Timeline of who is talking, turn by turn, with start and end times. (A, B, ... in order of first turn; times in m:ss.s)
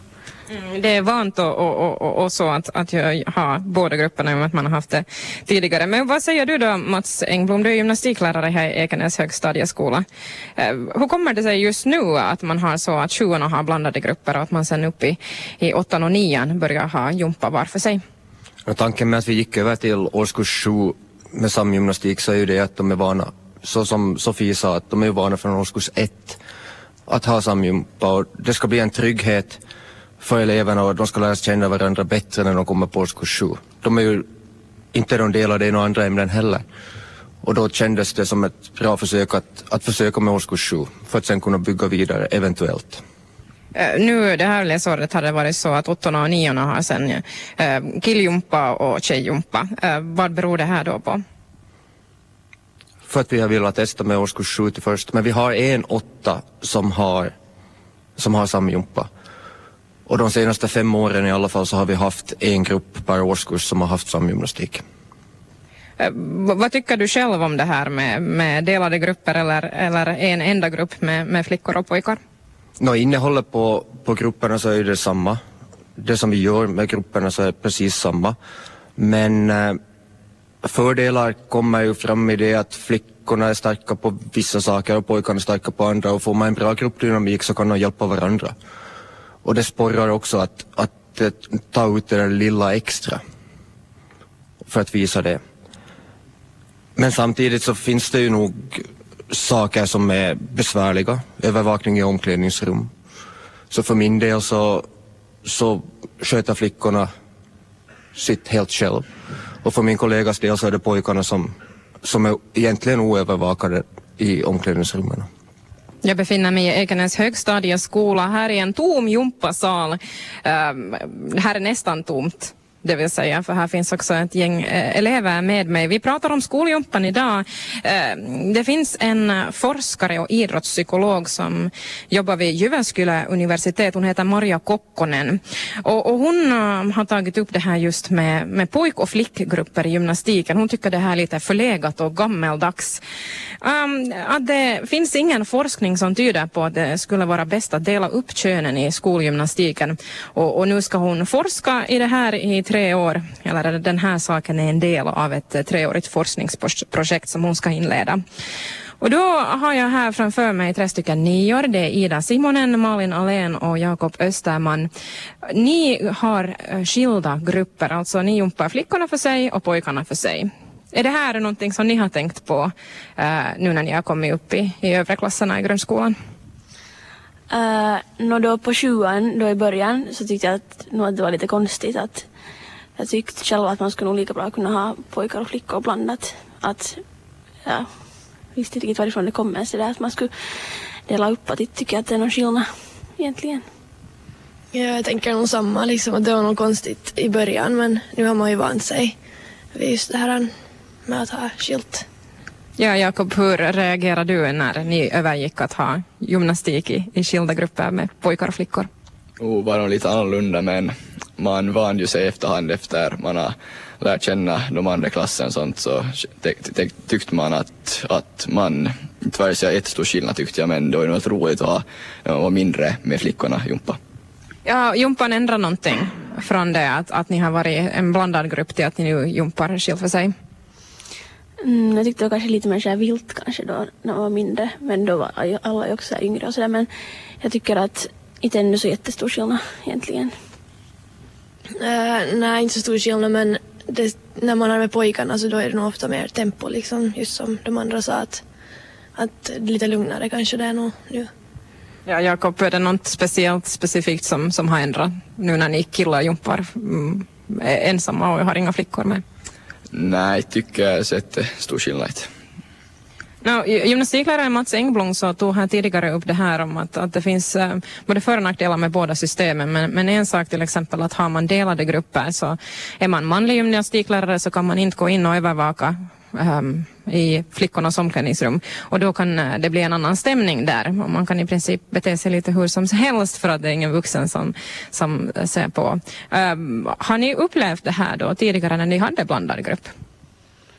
0:00.5-0:10.0 A
0:10.6-0:18.0 A
0:18.6-0:26.4 B
0:27.1-0:29.6 B
0:30.2-0:34.2 B
0:34.9-0:36.6 B
0:37.4-0:43.0 B
0:43.7-0:51.2 A
0:53.1-0:57.3 B
0:58.2-0:59.1 B
1:00.1-1:04.8 B
1:06.0-1:12.2 A
1:12.8-1:15.4 B
1:16.0-1:18.4 B
1:19.0-1:19.8 B
1:20.6-1:28.5 B
1:29.4-1:33.2 B
1:34.6-1:35.4 B
1:37.0-1:42.9 B
1:43.7-1:44.9 B
1:45.4-1:47.1 B
1:48.1-1:49.0 B
1:49.6-1:51.5 B
1:52.0-1:55.2 B
1:56.0-2:23.0 A
2:23.6-2:38.2 A
2:39.0-2:44.9 A
2:45.4-2:56.1 A
2:57.5-3:02.2 C
3:03.0-3:07.0 C
3:08.5-3:10.3 C
3:11.1-3:12.6 C
3:13.2-3:13.6 C
3:14.7-3:19.1 D
3:19.7-3:20.5 D
3:21.0-3:22.0 D
3:22.8-3:28.9 A
3:29.4-3:44.0 E
3:44.6-3:50.3 A
3:51.6-3:56.9 C
3:57.4-4:00.3 C
4:01.8-4:08.4 D
4:09.2-4:11.3 D
4:12.0-4:19.2 A
4:19.9-4:22.3 E
4:23.4-4:49.9 A